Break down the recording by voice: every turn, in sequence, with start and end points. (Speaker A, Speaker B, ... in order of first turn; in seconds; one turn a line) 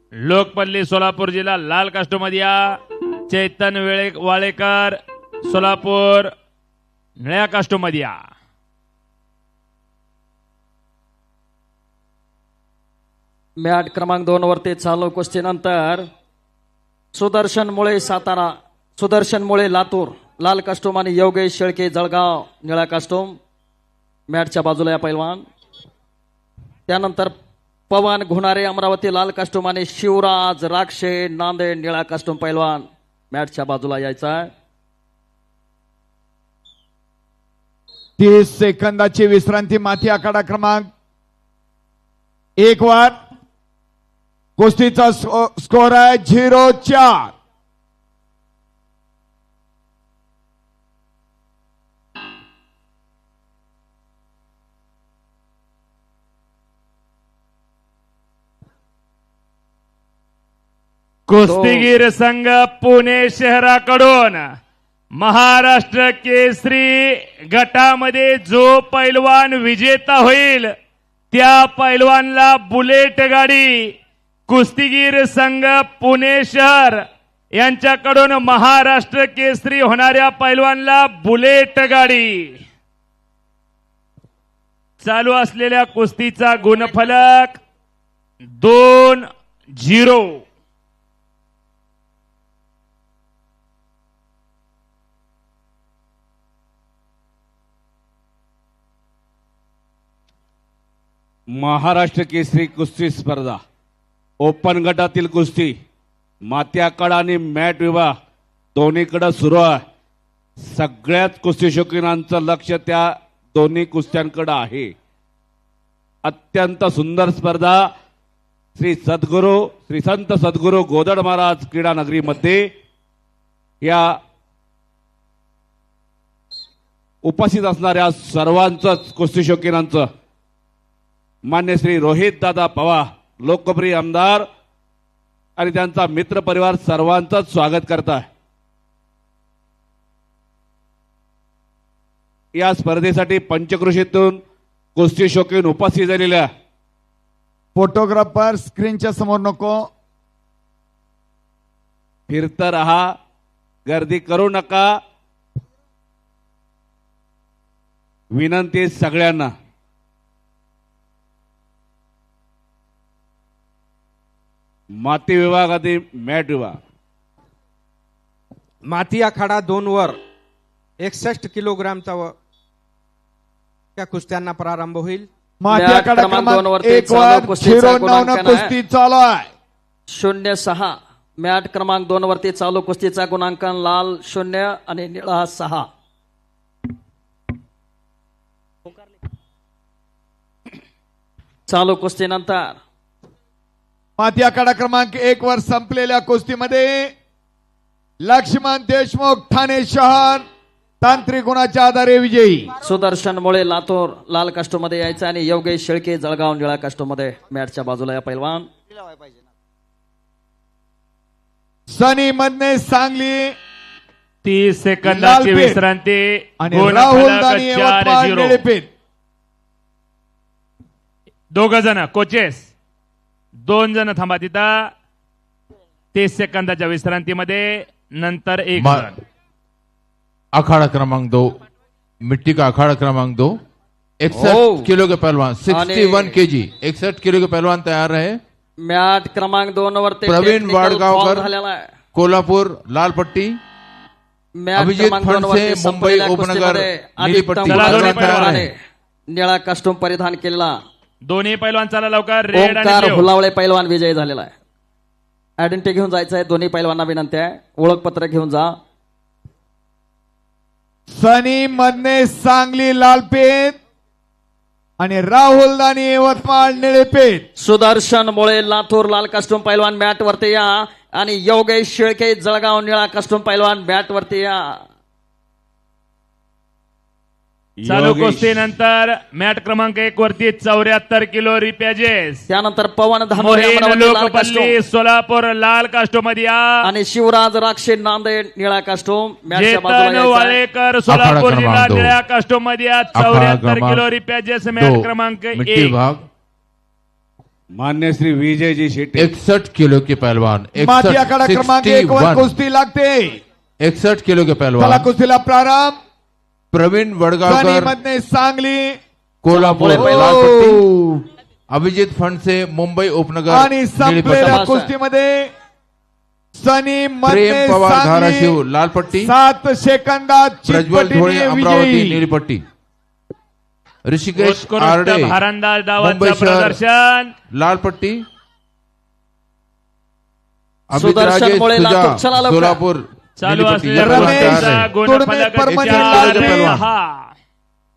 Speaker A: 0.2-2.8
Speaker A: 3.3-5.0
Speaker A: 5.5-6.3
Speaker A: 7.2-8.2
Speaker B: 13.6-16.1
Speaker B: 17.1-23.4
Speaker B: 24.3-25.4
Speaker B: 26.9-27.3
Speaker B: 27.9-34.5
Speaker C: 38.2-40.9
Speaker C: 42.6-43.1
Speaker C: 44.6-47.3
Speaker A: 61.3-64.5
Speaker B: 61.5-61.9
Speaker A: 65.2-70.7
Speaker A: 71.3-73.9
Speaker A: 74.5-77.0
Speaker A: 77.6-82.6
Speaker A: 85.0-87.6
Speaker A: 88.6-90.4
Speaker D: 101.5-103.6
Speaker D: 104.4-105.7
Speaker D: 106.5-108.1
Speaker D: 108.8-109.8
Speaker D: 110.6-114.9
Speaker D: 116.2-117.9
Speaker D: 118.8-122.7
Speaker D: 123.8-124.1
Speaker D: 127.2-130.1
Speaker D: 131.5-134.5
Speaker D: 135.6-138.3
Speaker D: 142.6-144.4
Speaker D: 145.0-146.5
Speaker C: 147.8-149.9
Speaker D: 152.3-153.1
Speaker D: 153.9-155.0
Speaker D: 158.3-159.5
Speaker D: 165.0-166.8
Speaker E: 168.8-170.2
Speaker E: 171.0-172.4
Speaker E: 174.0-175.3
Speaker C: 175.6-179.5
Speaker B: 175.7-178.7
Speaker B: 180.1-185.8
Speaker B: 191.7-192.7
Speaker C: 194.2-197.1
Speaker C: 198.2-200.4
Speaker C: 201.0-202.7
Speaker B: 202.8-208.7
Speaker C: 211.9-213.6
Speaker A: 214.4-218.6
Speaker C: 215.1-215.8
Speaker C: 216.6-218.9
Speaker A: 221.5-222.7
Speaker A: 223.7-224.9
Speaker A: 226.1-229.2
Speaker F: 228.8-229.1
Speaker F: 230.5-231.5
Speaker F: 232.2-233.6
Speaker F: 234.2-238.4
Speaker B: 234.3-234.9
Speaker B: 235.7-236.4
Speaker B: 238.8-241.8
Speaker F: 240.3-241.5
Speaker F: 242.1-243.6
Speaker B: 244.6-248.7
Speaker F: 244.8-248.7
Speaker A: 247.7-248.7
Speaker B: 249.3-250.7
Speaker A: 251.2-253.3
Speaker B: 252.5-254.5
Speaker B: 255.6-258.7
Speaker C: 261.1-263.8
Speaker C: 265.0-267.4
Speaker B: 267.6-274.8
Speaker D: 277.8-278.7
Speaker A: 277.9-282.4
Speaker B: 282.5-284.8
Speaker A: 283.4-286.7
Speaker B: 286.8-290.6
Speaker A: 289.5-295.9
Speaker F: 291.1-292.2
Speaker F: 293.1-294.1
Speaker F: 294.8-296.2
Speaker D: 297.8-299.3
Speaker F: 299.2-302.5
Speaker C: 300.8-303.4
Speaker F: 303.8-305.1
Speaker C: 304.8-306.0
Speaker F: 306.7-307.9
Speaker C: 307.5-309.0
Speaker F: 309.4-310.8
Speaker B: 309.5-310.8
Speaker C: 309.9-311.2
Speaker F: 311.7-314.6
Speaker C: 313.5-315.5
Speaker B: 314.3-314.9
Speaker C: 316.6-318.6
Speaker F: 317.2-319.3
Speaker C: 319.2-322.2
Speaker F: 320.7-322.6
Speaker F: 324.1-325.4
Speaker A: 324.4-327.3
Speaker F: 326.0-326.8
Speaker F: 327.5-328.2
Speaker F: 330.9-334.9
Speaker B: 330.9-332.8
Speaker A: 333.4-337.3
Speaker C: 333.9-336.8
Speaker F: 335.8-336.9